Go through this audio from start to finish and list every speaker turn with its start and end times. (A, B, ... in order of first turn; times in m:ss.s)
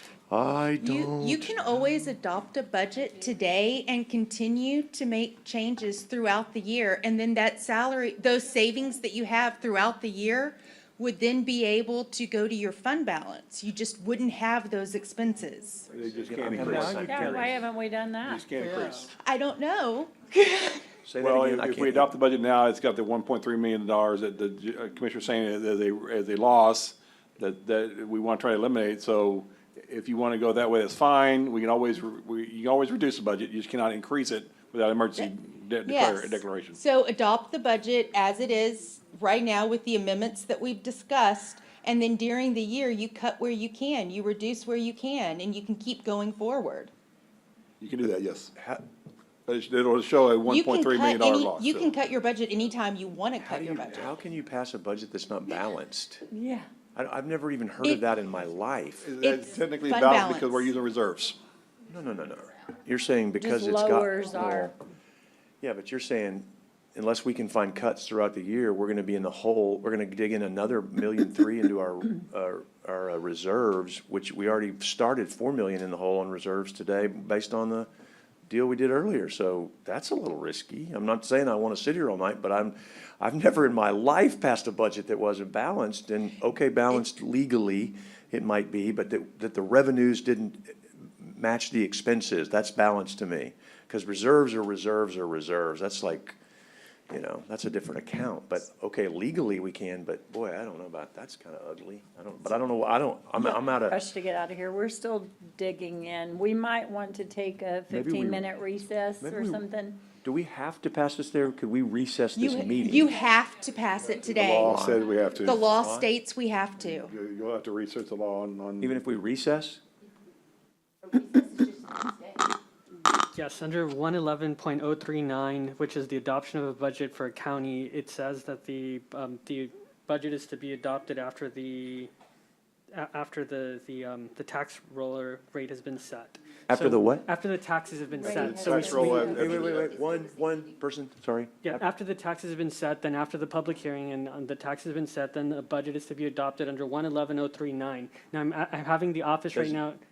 0:00.3-0:01.6 A
0:00.8-0:15.9 B
0:15.9-0:17.3 C
0:16.2-0:17.6 A
0:16.6-0:18.6 D
0:18.2-0:19.1 C
0:19.2-0:20.9 B
0:21.0-0:22.1 A
0:21.2-0:36.8 C
0:35.8-0:46.9 B
0:47.8-0:48.5 C
0:49.4-0:52.0 C
0:50.4-0:54.1 B
0:53.4-0:56.2 A
0:56.3-0:56.7 D
0:56.9-0:59.0 A
0:59.0-1:01.4 C
0:59.2-1:00.7 B
1:01.9-1:04.7 A
1:03.4-1:04.7 D
1:05.6-1:17.9 A
1:18.5-1:36.4 A
1:37.1-1:44.0 A
1:43.4-1:50.1 D
1:47.9-1:48.4 A
1:49.2-1:49.6 A
1:50.2-1:53.1 A
1:52.4-1:54.8 B
1:54.1-1:55.6 C
1:54.6-1:56.1 A
1:55.4-1:57.1 B
1:56.9-1:59.0 C
1:58.8-1:59.8 A
2:03.3-2:12.1 E
2:12.9-2:19.0 E
2:16.7-2:17.2 A
2:18.1-2:19.6 D
2:18.3-2:19.9 C
2:18.8-2:21.8 A
2:21.6-2:30.0 E
2:29.5-2:29.8 A